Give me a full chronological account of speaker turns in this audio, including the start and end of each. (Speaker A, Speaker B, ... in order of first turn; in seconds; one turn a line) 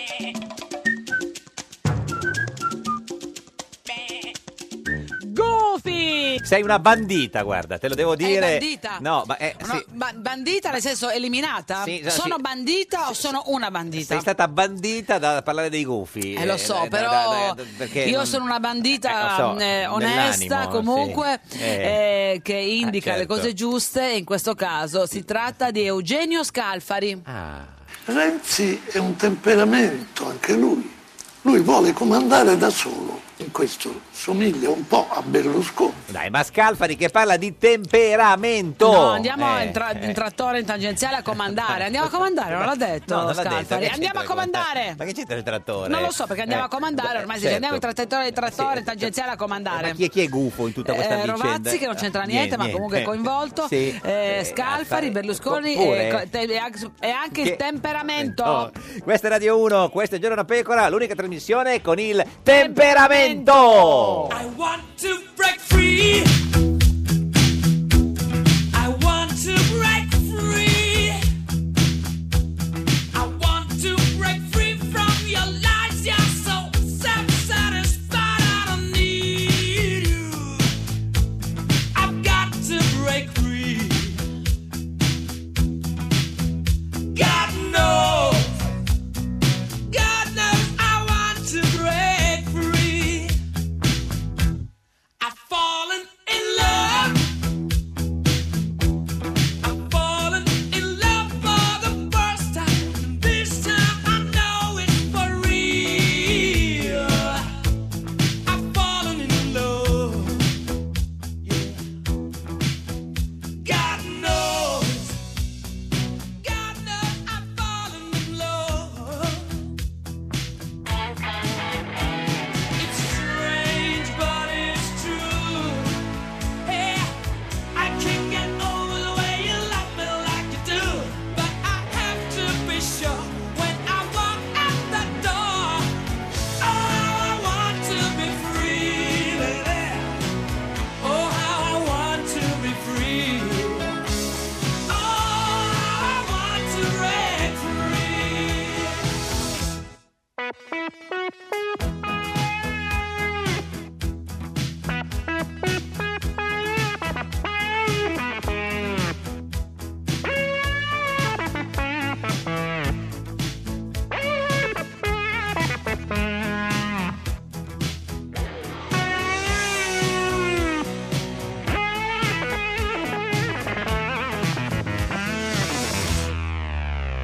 Speaker A: 5.2-6.5
Speaker B: 6.4-9.9
Speaker A: 8.2-9.1
Speaker A: 9.6-14.3
Speaker B: 11.8-12.4
Speaker B: 13.9-18.4
Speaker A: 16.4-27.2
Speaker B: 19.0-22.0
Speaker B: 22.8-23.5
Speaker B: 27.3-27.8
Speaker C: 28.1-36.0
Speaker B: 36.1-40.2
Speaker A: 38.8-45.0
Speaker B: 41.5-49.1
Speaker A: 45.9-50.0
Speaker B: 49.7-56.2
Speaker A: 50.9-58.7
Speaker B: 57.4-57.6
Speaker B: 58.2-64.3
Speaker A: 62.5-64.4
Speaker D: 64.3-66.4
Speaker D: 68.7-71.2
Speaker D: 73.1-80.7
Speaker D: 81.9-84.2
Speaker D: 87.1-88.6
Speaker D: 89.9-93.4
Speaker D: 95.2-97.3
Speaker D: 99.6-107.5
Speaker D: 108.5-110.5
Speaker D: 111.4-111.8
Speaker D: 113.6-115.2
Speaker D: 116.4-119.6
Speaker D: 122.8-126.0
Speaker D: 126.6-127.1
Speaker D: 127.7-135.9
Speaker D: 136.6-140.2
Speaker D: 141.0-143.9
Speaker D: 144.9-149.0